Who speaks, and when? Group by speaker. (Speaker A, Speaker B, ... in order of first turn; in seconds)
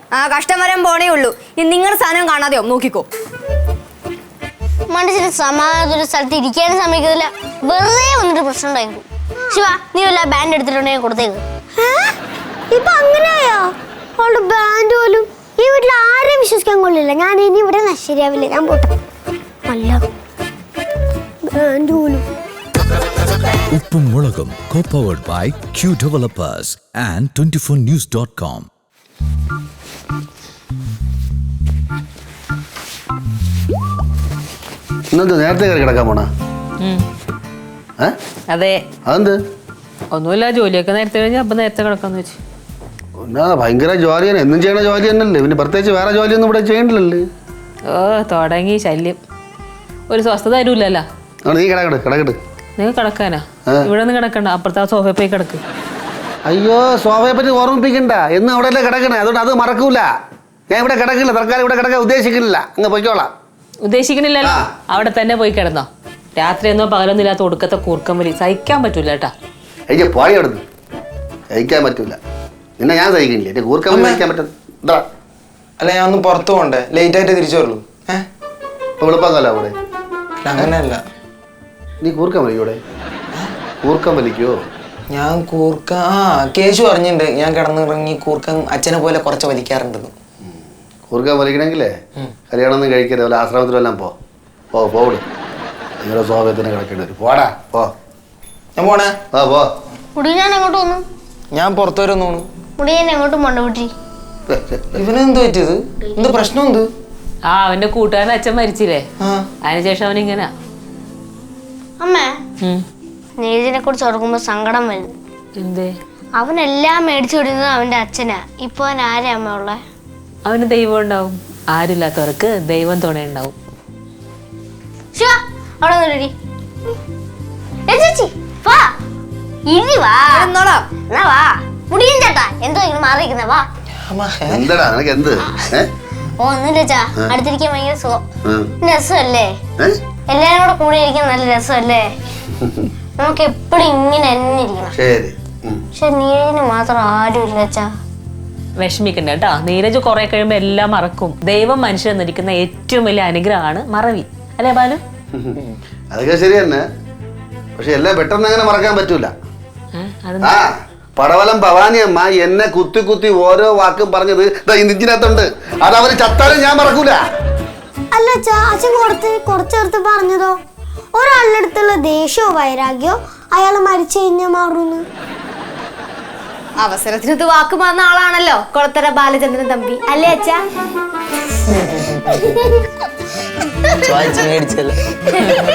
Speaker A: 0.1-3.1, 130.3-130.9, 176.8-180.6
Speaker B: 4.9-11.4, 100.2-101.0, 102.8-103.9, 112.0-112.4, 113.4-115.2, 116.4-119.8, 125.2-126.3, 127.9-128.9, 129.7-130.5, 131.1-133.7, 136.4-138.2, 138.8-139.6, 140.3-142.2, 143.2-144.9, 145.9-147.9
Speaker C: 11.8-12.1, 12.7-18.9, 19.7-20.0, 21.5-22.2, 168.1-170.6, 171.2-175.0
Speaker D: 23.7-28.7
Speaker E: 35.1-36.3, 39.1-39.4, 43.2-47.3, 51.5-52.4, 56.5-60.1, 60.7-63.3, 64.4-64.7, 69.9-70.6, 71.5-72.2, 72.8-75.0, 79.0-79.8, 82.0-82.8, 83.8-84.6, 91.1-91.9, 92.5-94.1, 94.7-95.2, 96.0-97.9, 99.3-99.7, 104.5-105.0, 134.5-135.9, 138.5-138.7, 144.9-145.8, 155.3-155.6, 156.1-156.8, 157.8-159.3, 160.4-167.2
Speaker F: 38.5-38.8, 40.1-42.4, 47.9-49.2, 50.1-51.0, 52.8-55.6, 63.9-69.3, 107.5-109.0, 109.6-110.5, 115.6-115.9, 120.5-123.5, 148.8-155.0, 159.9-160.6
Speaker G: 73.9-74.2, 75.8-78.3, 80.4-81.0, 85.1-90.1, 98.8-99.2, 101.5-102.5, 105.0-106.9, 109.2-109.5, 134.1-134.7, 181.7-182.7, 184.0-185.0